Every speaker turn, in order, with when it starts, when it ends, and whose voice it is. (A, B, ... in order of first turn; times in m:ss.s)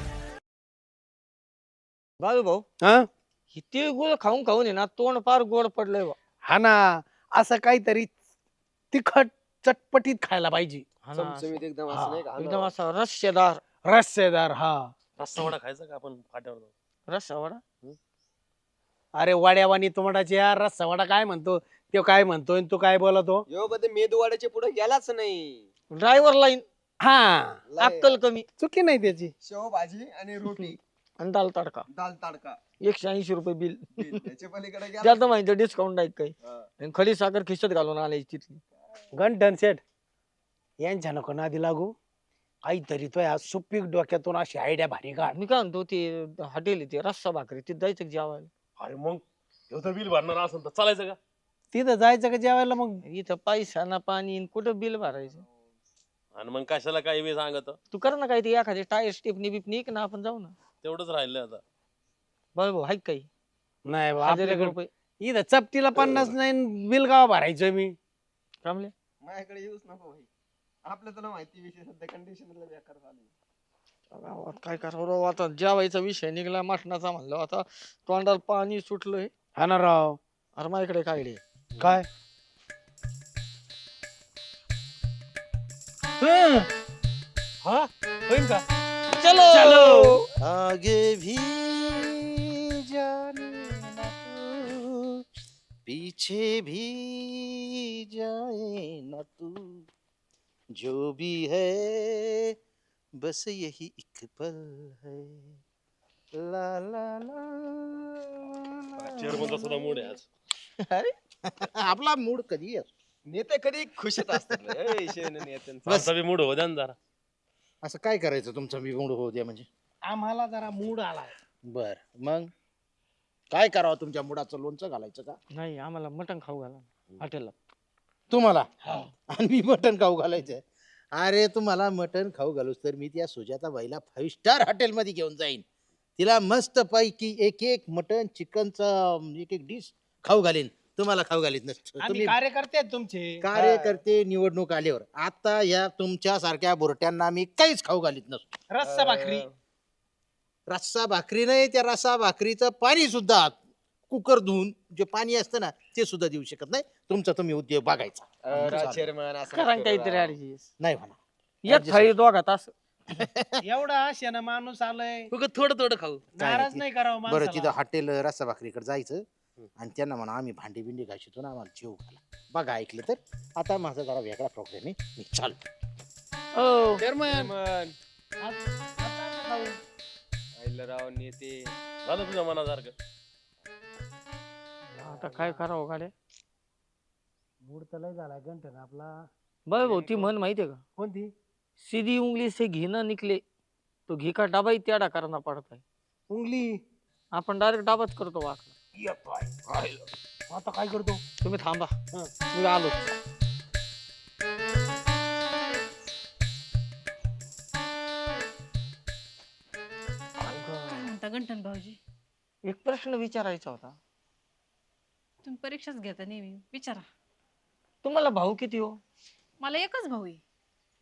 0:02.2-0:02.6 A
0:02.8-0:03.1 B
0:03.5-0:06.2 A
0:06.4-0:08.1 B
0:08.9-0:10.9 B
0:11.1-0:11.6 A
0:11.1-0:12.7 C
0:11.9-0:12.3 B
0:12.4-0:13.6 A
0:13.8-0:14.9 B
0:15.2-0:16.7 D
0:17.1-0:17.6 A
0:19.1-0:23.4 B
0:23.5-0:25.7 C
0:25.9-0:26.6 A
0:27.0-0:27.6 B
0:27.7-0:28.2 C
0:27.8-0:28.4 A
0:28.6-0:29.3 B
0:29.4-0:30.8 C
0:31.2-0:31.8 A
0:31.9-0:32.6 C
0:32.8-0:34.1 A
0:34.0-0:35.3 C
0:35.0-0:38.6 A
0:39.1-0:39.8 B
0:40.8-0:41.9 B
0:42.6-0:45.4 B
0:45.2-0:48.5 A
0:48.8-0:51.2 D
0:51.7-0:53.0 B
0:53.0-0:55.4 A
0:55.1-0:55.8 C
0:56.3-0:57.8 D
0:57.9-1:00.5 A
1:00.8-1:01.6 D
1:02.5-1:03.3 A
1:03.8-1:08.0 B
1:04.2-1:04.9 A
1:08.6-1:08.9 A
1:09.2-1:10.3 C
1:10.8-1:13.3 C
1:14.1-1:19.3 A
1:19.6-1:20.2 B
1:20.6-1:21.4 A
1:21.8-1:22.1 B
1:26.2-1:26.7 B
1:29.1-1:30.2 A
1:30.4-1:35.2 E
1:35.9-1:39.9 E
1:40.8-1:42.6 E
1:43.2-1:45.5 E
1:46.4-1:50.2 E
1:49.1-1:50.2 D
1:50.8-1:51.1 A
1:51.5-1:52.9 E
1:53.3-1:55.9 C
1:55.8-1:57.0 D
1:55.9-1:56.1 E
1:57.8-1:59.7 E
2:00.0-2:01.3 B
2:01.7-2:02.5 E
2:03.5-2:05.4 E
2:05.6-2:07.5 A
2:08.3-2:10.6 E
2:11.2-2:15.6 E
2:16.2-2:22.4 E
2:22.0-2:23.5 B
2:23.4-2:28.5 E
2:23.6-2:24.0 C
2:28.7-2:29.5 B
2:28.8-2:29.5 C
2:30.7-2:33.6 E
2:34.1-2:39.1 E
2:38.4-2:40.4 C
2:39.5-2:40.7 A
2:40.8-2:42.1 E
2:41.6-2:42.7 A
2:43.2-2:43.6 E
2:43.6-2:45.3 B
2:45.3-2:46.2 D
2:46.3-2:47.8 B
2:46.4-2:49.2 E
2:49.8-2:55.6 E
2:56.6-2:57.0 A
2:57.0-2:57.5 B
2:57.2-2:57.9 C
2:58.4-2:59.7 B
3:00.6-3:01.7 C
3:02.0-3:02.9 D
3:05.0-3:06.1 A
3:07.6-3:09.1 B
3:09.7-3:10.8 A
3:09.8-3:10.3 C
3:11.0-3:11.3 B
3:11.8-3:13.4 A
3:14.1-3:15.8 A
3:16.3-3:16.8 B
3:17.3-3:18.7 A
3:19.0-3:19.5 B
3:20.5-3:21.2 B
3:21.4-3:22.0 A
3:22.5-3:22.9 A
3:30.4-3:31.1 A
3:30.9-3:32.0 F
3:32.6-3:34.0 A
3:35.4-3:37.0 F
3:38.0-3:39.0 A
3:39.6-3:40.4 F